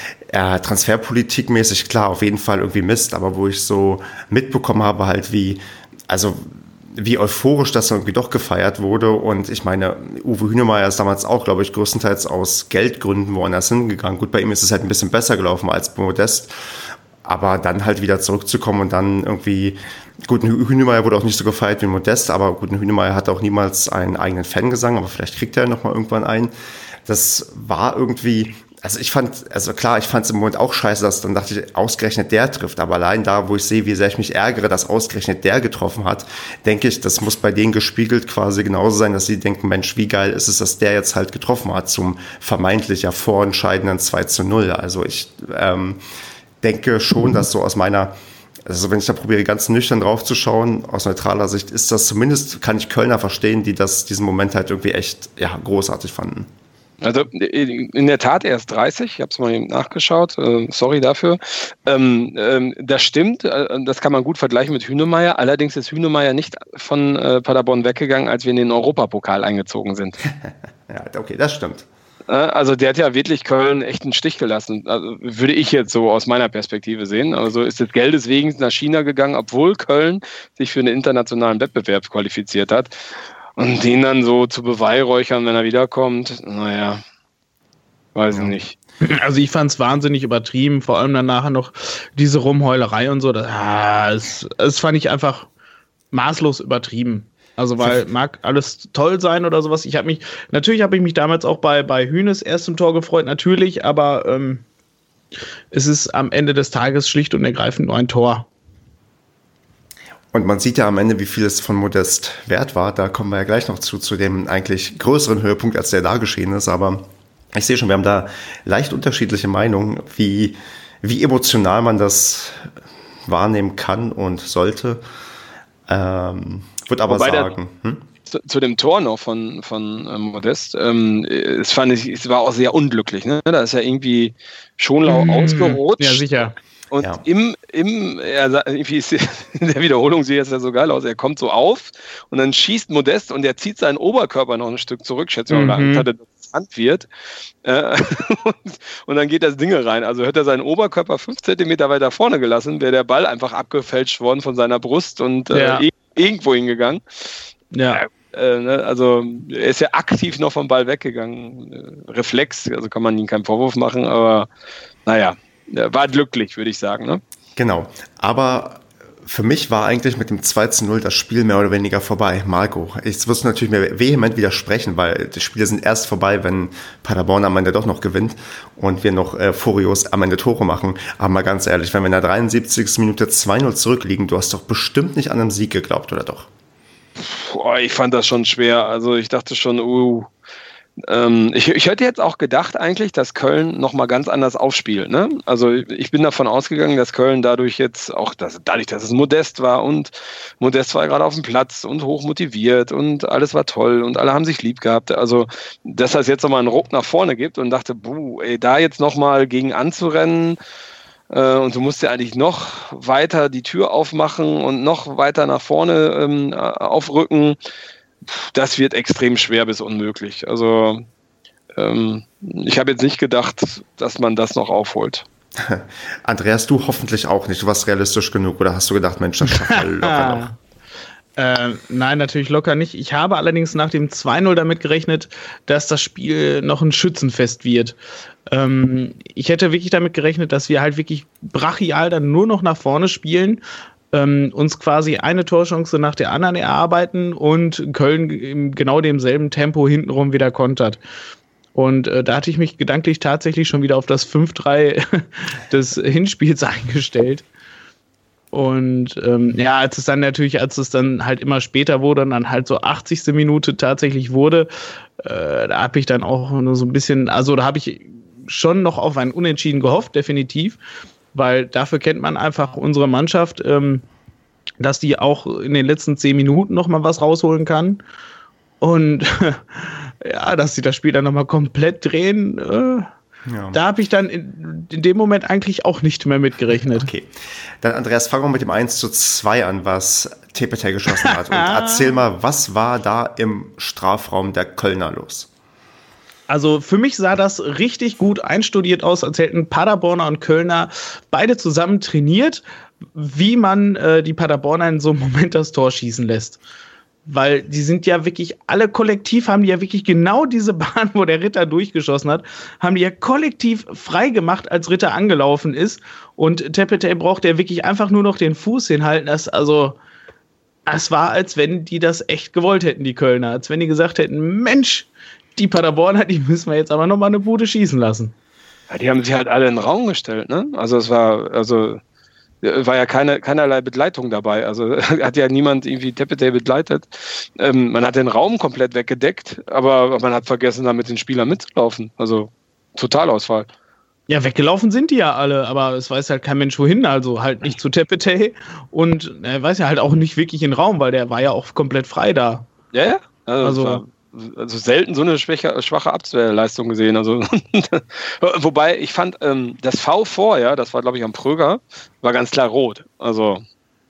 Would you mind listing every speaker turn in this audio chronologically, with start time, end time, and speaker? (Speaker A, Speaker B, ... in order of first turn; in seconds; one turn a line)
Speaker A: 0.3-26.5
Speaker A: 27.1-46.0
Speaker A: 46.6-48.1
Speaker A: 48.7-56.5
Speaker B: 57.0-70.2
Speaker A: 70.4-71.9
Speaker B: 72.3-82.9
Speaker B: 83.6-87.0
Speaker B: 88.2-88.8
Speaker C: 89.0-95.5
Speaker C: 96.1-104.6
Speaker C: 105.7-108.5
Speaker A: 110.3-122.7
Speaker A: 123.3-125.0
Speaker A: 125.9-128.0
Speaker B: 127.1-127.5
Speaker B: 128.3-136.2
Speaker C: 135.1-136.6
Speaker B: 136.9-147.1
Speaker C: 145.5-146.1
Speaker B: 147.6-157.3
Speaker C: 155.5-155.8
Speaker C: 157.7-158.0
Speaker B: 157.9-164.5
Speaker B: 165.1-167.2
Speaker A: 167.6-186.5
Speaker B: 187.2-190.3
Speaker B: 191.0-210.6
Speaker B: 211.3-217.6
Speaker B: 218.3-221.1
Speaker B: 221.8-225.2
Speaker A: 225.6-230.5
Speaker C: 229.6-230.5
Speaker C: 231.4-238.0
Speaker C: 238.5-243.6
Speaker C: 244.1-251.0
Speaker C: 251.8-257.5
Speaker C: 258.5-270.8
Speaker C: 271.3-274.1
Speaker C: 274.8-278.0
Speaker C: 278.8-283.1
Speaker A: 283.5-283.8
Speaker C: 283.7-287.1
Speaker A: 286.9-295.5
Speaker C: 291.3-292.1
Speaker C: 296.5-302.6
Speaker C: 303.1-306.6
Speaker C: 307.3-320.0
Speaker C: 320.9-328.3
Speaker B: 328.9-332.0
Speaker B: 332.6-343.7
Speaker C: 344.3-352.7
Speaker B: 352.9-363.6
Speaker C: 353.6-354.0